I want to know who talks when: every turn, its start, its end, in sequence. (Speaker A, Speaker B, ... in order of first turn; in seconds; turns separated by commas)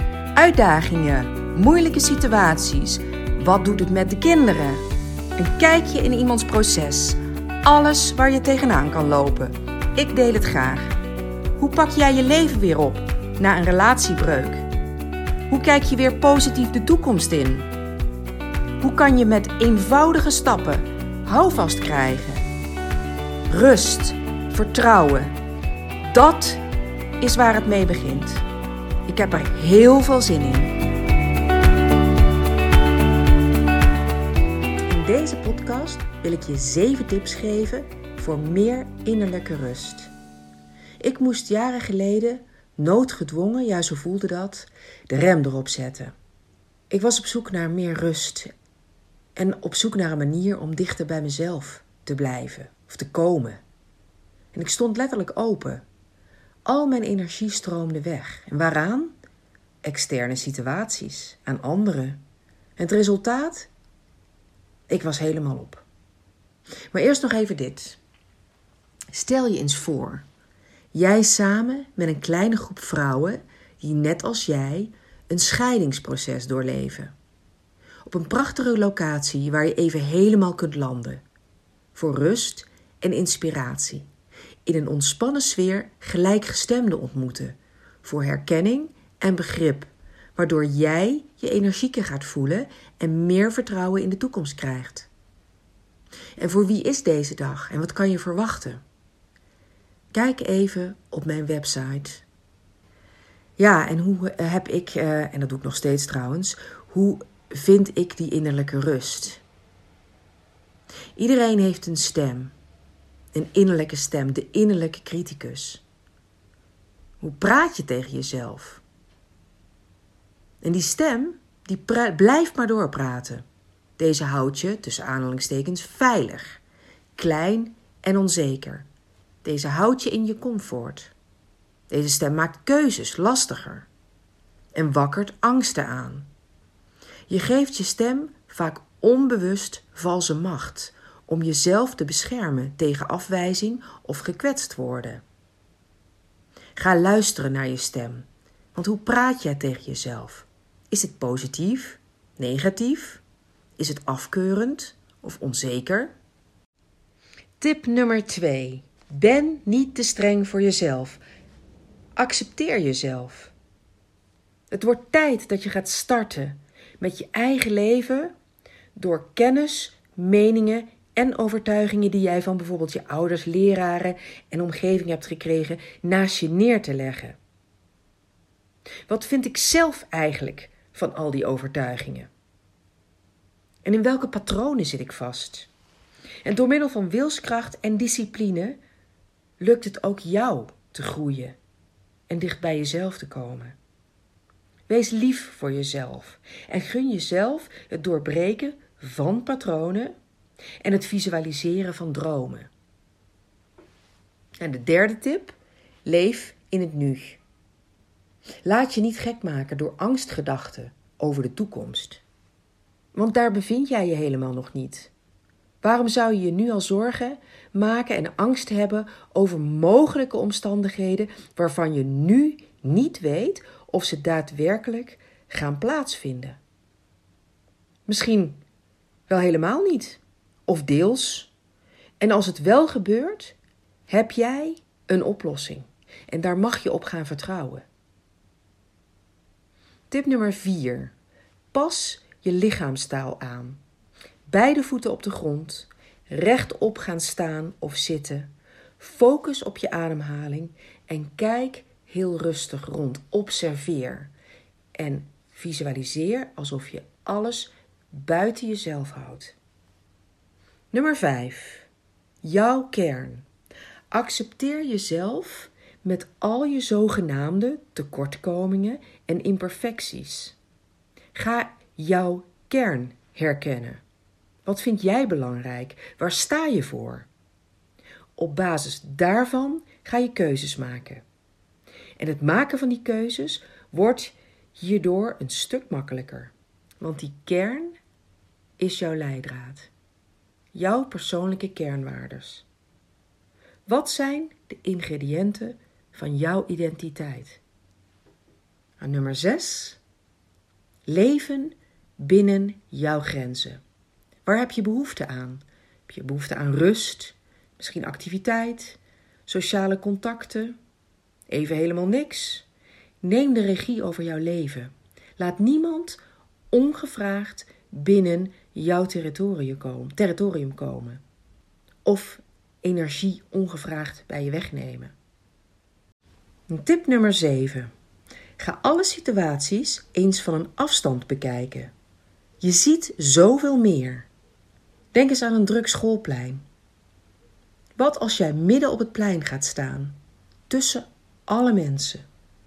Speaker A: 0.3-4.8, Speaker A: 5.3-10.9, Speaker A: 11.6-14.7, Speaker A: 15.5-17.7, Speaker A: 18.8-22.5, Speaker A: 23.5-25.3, Speaker A: 26.1-26.6, Speaker A: 27.2-28.4, Speaker A: 29.1-30.8, Speaker A: 34.9-40.1, Speaker A: 41.0-46.1, Speaker A: 46.9-48.5, Speaker A: 49.4-53.6, Speaker A: 54.5-55.8, Speaker A: 56.6-59.1, Speaker A: 59.8-62.2, Speaker A: 62.8-63.7, Speaker A: 64.9-65.8, Speaker A: 66.9-68.0, Speaker A: 69.1-70.2, Speaker A: 70.9-77.1, Speaker A: 78.0-81.2, Speaker A: 81.9-84.1, Speaker A: 84.6-95.1, Speaker A: 96.4-98.8, Speaker A: 100.1-102.2, Speaker A: 103.6-109.4, Speaker A: 111.2-112.5, Speaker A: 113.3-115.8, Speaker A: 117.2-118.8, Speaker A: 120.6-123.4, Speaker A: 124.0-126.6, Speaker A: 127.1-128.8, Speaker A: 129.4-131.1, Speaker A: 131.9-133.9, Speaker A: 134.7-136.3, Speaker A: 137.3-145.2, Speaker A: 146.8-153.2, Speaker A: 153.8-156.1, Speaker A: 157.6-161.2, Speaker A: 162.2-163.5, Speaker A: 164.7-168.3, Speaker A: 168.9-177.4, Speaker A: 179.1-182.3, Speaker A: 183.8-185.7, Speaker A: 186.4-188.8, Speaker A: 189.6-191.6, Speaker A: 192.3-193.8, Speaker A: 194.9-200.1, Speaker A: 200.8-202.7, Speaker A: 204.6-207.4, Speaker A: 208.6-212.2, Speaker A: 213.1-215.1, Speaker A: 215.8-226.6, Speaker A: 228.1-228.6, Speaker A: 229.3-231.5, Speaker A: 232.2-233.6, Speaker A: 234.1-237.8, Speaker A: 240.1-241.1, Speaker A: 241.7-243.8, Speaker A: 244.5-254.3, Speaker A: 254.9-259.5, Speaker A: 260.9-261.9, Speaker A: 262.4-263.4, Speaker A: 264.1-270.6, Speaker A: 271.3-274.0, Speaker A: 274.6-277.3, Speaker A: 278.4-281.2, Speaker A: 282.2-287.9, Speaker A: 288.8-289.9, Speaker A: 290.7-292.6, Speaker A: 293.9-297.6, Speaker A: 299.0-300.0, Speaker A: 301.1-303.8, Speaker A: 304.4-310.8, Speaker A: 311.5-312.6, Speaker A: 313.2-316.2, Speaker A: 316.7-321.2, Speaker A: 322.0-325.1, Speaker A: 326.7-327.9, Speaker A: 328.6-331.9, Speaker A: 332.6-334.3, Speaker A: 335.1-336.6, Speaker A: 338.0-340.1, Speaker A: 340.7-342.2